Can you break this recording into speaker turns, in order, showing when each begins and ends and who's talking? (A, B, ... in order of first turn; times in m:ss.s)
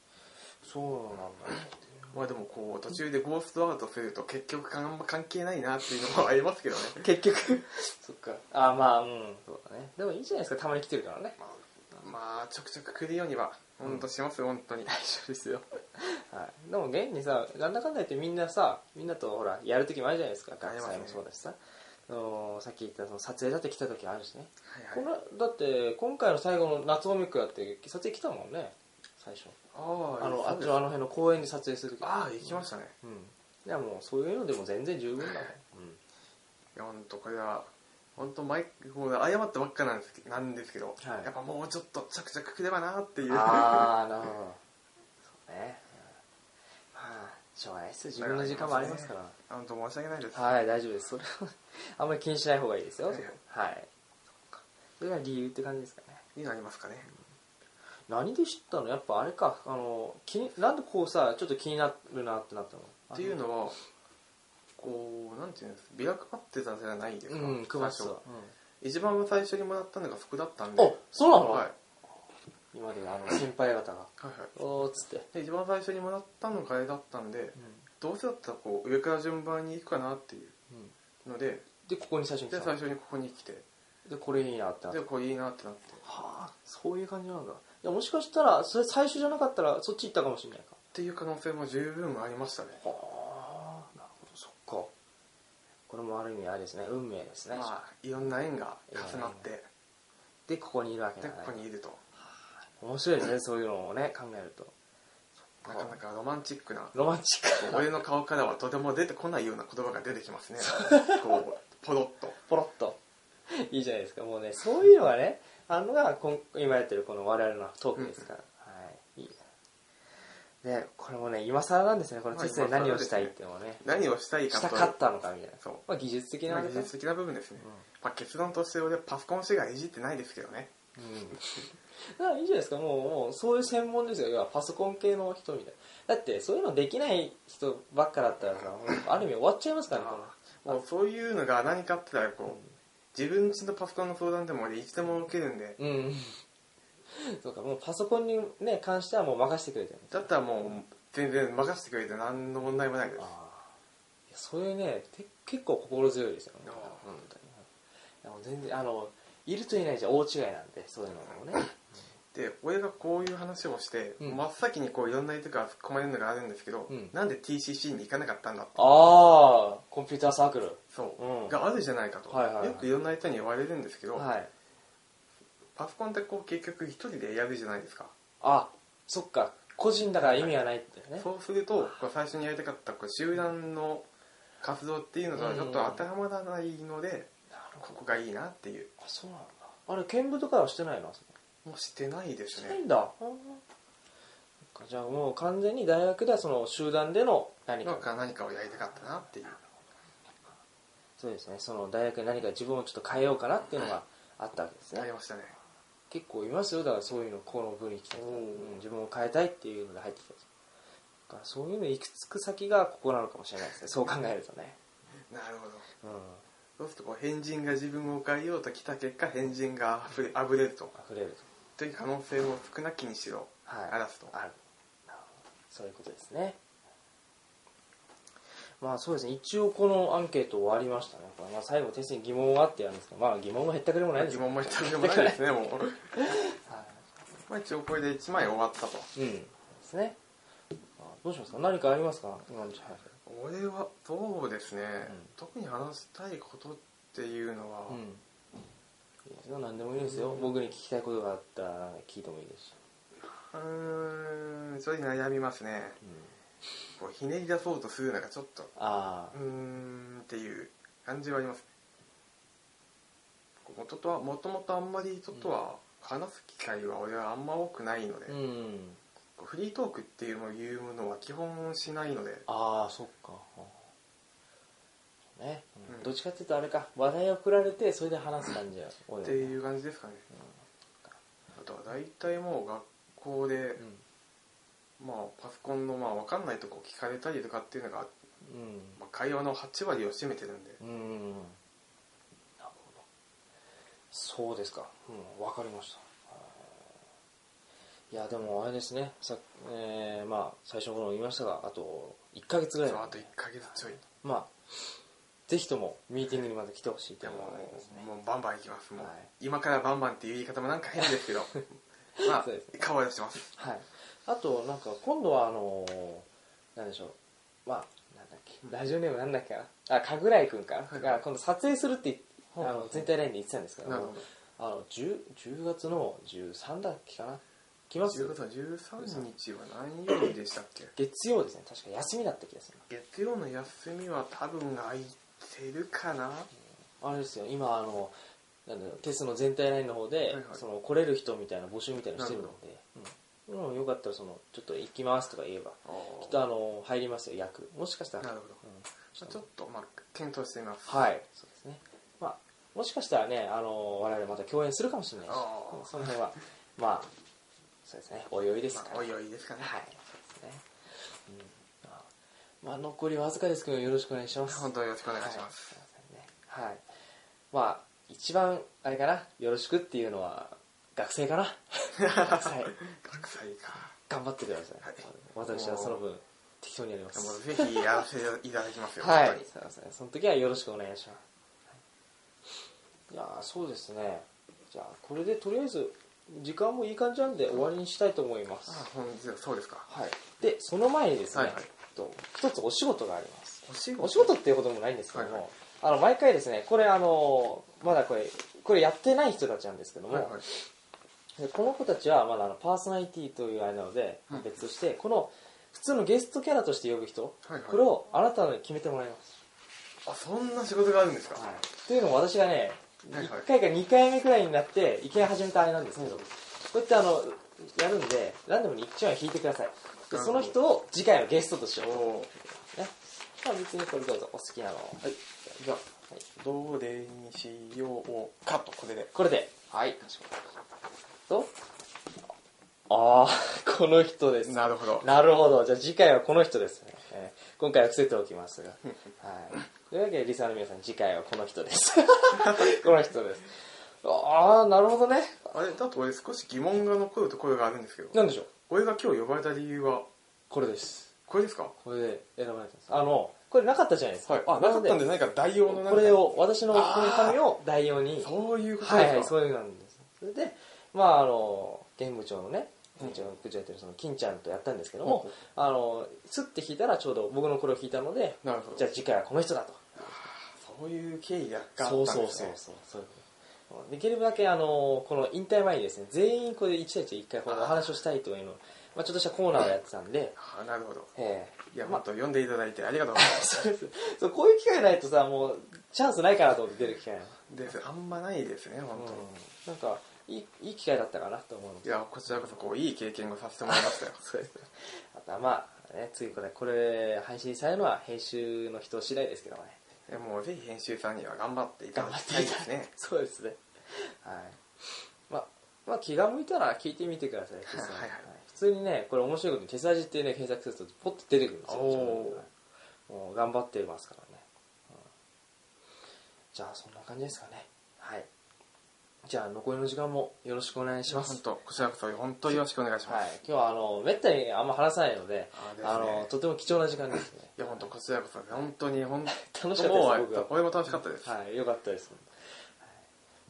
0:00.5-0:02.1 A
0:02.1-0:07.0 B
0:06.9-0:11.4 A
0:11.4-0:14.9 B
0:14.8-0:29.6 A
0:20.6-0:21.2 B
0:24.7-0:25.1 B
0:29.7-0:30.8 B
0:30.2-0:36.0 A
0:32.0-0:32.9 B
0:35.2-0:35.5 B
0:36.7-0:43.9 B
0:41.0-0:41.3 A
0:43.3-0:44.6 A
0:45.3-0:46.2 A
0:46.9-0:49.3 A
0:48.2-0:50.4 B
0:50.3-0:53.9 A
0:53.1-0:53.3 B
0:54.5-0:56.2 A
0:56.4-0:57.1 B
0:58.1-1:03.4 A
1:03.1-1:03.8 B
1:04.8-1:08.2 B
1:07.3-1:08.5 A
1:08.8-1:11.7 B
1:10.8-1:11.7 A
1:12.7-1:15.3 A
1:14.2-1:14.5 B
1:15.3-1:20.5 B
1:17.6-1:17.9 A
1:21.2-1:21.7 B
1:21.8-1:22.8 A
1:22.5-1:23.6 B
1:24.0-1:25.0 A
1:24.9-1:26.0 B
1:26.0-1:30.8 A
1:30.9-1:32.8 B
1:32.8-1:34.9 A
1:35.9-1:37.7 A
1:37.5-1:39.7 B
1:38.9-1:39.5 A
1:40.5-1:41.6 A
1:41.2-1:42.0 B
1:42.7-1:44.7 A
1:45.5-1:46.0 A
1:45.6-1:46.9 B
1:46.9-1:48.0 A
1:47.6-1:52.4 B
1:50.8-1:51.2 A
1:52.5-1:53.0 A
1:53.5-1:59.4 A
1:57.9-1:58.2 B
2:00.6-2:03.8 A
2:02.3-2:05.0 B
2:04.5-2:06.9 A
2:06.5-2:10.7 B
2:07.6-2:07.9 A
2:11.0-2:20.8 A
2:19.9-2:22.6 B
2:22.4-2:22.7 A
2:23.1-2:25.8 B
2:25.8-2:26.4 A
2:27.1-2:30.3 A
2:30.1-2:33.3 B
2:33.2-2:33.7 A
2:34.3-2:37.7 A
2:36.6-2:37.1 B
2:38.2-2:41.7 A
2:42.3-2:49.3 B
2:46.9-2:47.1 A
2:48.7-2:51.6 A
2:50.9-2:54.2 B
2:52.3-2:52.9 A
2:54.1-2:54.5 A
2:55.8-2:58.1 B
2:58.4-3:02.0 A
3:00.2-3:00.6 B
3:01.2-3:04.0 B
3:04.6-3:08.9 B
3:05.3-3:06.1 A
3:07.5-3:08.2 A
3:09.0-3:11.3 A
3:11.6-3:12.8 B
3:12.5-3:13.6 A
3:14.7-3:18.1 A
3:17.8-3:19.6 B
3:18.8-3:19.3 A
3:21.2-3:25.1 A
3:24.9-3:25.6 B
3:26.1-3:30.4 A
3:28.1-3:28.8 B
3:31.3-3:34.8 A
3:35.3-3:35.9 B
3:36.0-3:36.4 A
3:36.8-3:40.9 B
3:40.9-3:41.4 A
3:41.8-3:44.3 B
3:43.6-3:44.6 A
3:45.1-3:46.6 A
3:48.8-3:55.4 A
3:54.1-3:56.2 B
3:56.1-3:57.0 A
3:57.5-3:59.1 B
3:59.1-4:00.2 A
4:01.0-4:03.1 A
4:03.2-4:08.0 B
4:05.0-4:05.3 A
4:07.9-4:08.2 A
4:09.2-4:12.8 A
4:10.0-4:10.5 B
4:13.5-4:16.0 B
4:16.0-4:16.3 A
4:16.9-4:18.7 B
4:18.8-4:19.4 A
4:19.3-4:21.6 B
4:23.6-4:28.4 B
4:28.3-4:29.0 A
4:29.4-4:32.4 B
4:32.5-4:33.8 A
4:35.4-4:39.6 A
4:39.2-4:40.3 B
4:41.5-4:43.8 B
4:45.0-4:48.1 B
4:48.4-4:49.0 A
4:49.0-4:50.8 B
4:50.8-4:51.6 A
4:52.6-4:53.0 A
4:54.1-4:56.9 A
4:58.1-5:03.3 A
5:02.8-5:04.0 B
5:04.0-5:04.5 A
5:05.5-5:08.1 A
5:07.2-5:11.6 B
5:09.0-5:09.3 A
5:11.0-5:11.2 A
5:12.2-5:12.8 A
5:12.2-5:13.5 B
5:13.5-5:28.4 A
5:20.9-5:21.2 B
5:22.5-5:23.1 B
5:23.8-5:24.2 B
5:28.1-5:30.9 B
5:29.0-5:29.3 A
5:30.9-5:32.8 A
5:32.9-5:36.5 B
5:37.0-5:38.1 A
5:38.6-5:49.4 A
5:40.3-5:40.6 B
5:42.2-5:42.5 B
5:45.9-5:46.4 B
5:48.2-5:48.6 B
5:49.2-5:51.1 B
5:50.8-5:57.1 A
5:55.3-5:56.1 B
5:57.8-6:02.1 A
5:58.7-5:59.7 B
6:02.6-6:06.8 A
6:04.4-6:05.8 B
6:07.5-6:12.8 A
6:12.0-6:13.9 B
6:14.0-6:17.8 A
6:14.8-6:16.0 B
6:17.1-6:19.5 B
6:19.0-6:21.2 A
6:23.1-6:28.9 A
6:28.7-6:29.9 B
6:29.9-6:40.6 A
6:31.3-6:31.7 B
6:33.6-6:34.4 B
6:35.1-6:35.4 B
6:40.1-6:40.4 B
6:41.4-6:49.4 A
6:44.3-6:44.5 B
6:47.4-6:47.8 B
6:50.0-6:51.4 B
6:51.3-7:05.1 A
6:53.1-6:53.5 B
6:56.0-6:56.3 B
7:00.1-7:00.6 B
7:01.8-7:02.3 B
7:05.0-7:05.8 B
7:06.4-7:09.1 B
7:09.1-7:10.5 A
7:11.3-7:11.5 A
7:12.9-7:25.5 A
7:14.4-7:15.1 B
7:22.4-7:22.7 B
7:25.5-7:30.1 B
7:28.1-7:28.5 A
7:30.5-7:31.1 A
7:31.3-7:31.7 B
7:31.8-7:35.0 A
7:34.2-7:37.4 B
7:35.6-7:50.3 A
7:38.2-7:39.3 B
7:43.0-7:43.3 B
7:45.0-7:45.4 B
7:48.4-7:48.9 B
7:50.1-7:52.6 B
7:51.8-8:00.4 A
7:57.5-7:57.9 B
8:00.4-8:01.1 B
8:01.1-8:02.0 A
8:01.7-8:03.5 B
8:03.1-8:07.4 A
8:07.5-8:09.3 B
8:08.9-8:12.5 A
8:11.8-8:14.2 B
8:13.6-8:19.8 A
8:20.1-8:22.9 B
8:21.9-8:24.6 A
8:25.3-8:32.5 A
8:27.7-8:28.3 B
8:31.6-8:32.5 B
8:33.1-8:35.0 A
8:36.5-8:38.3 A
8:39.2-8:41.9 A
8:41.1-8:43.2 B
8:42.5-8:47.6 A
8:45.5-8:46.3 B
8:47.6-8:51.3 B
8:49.3-8:52.9 A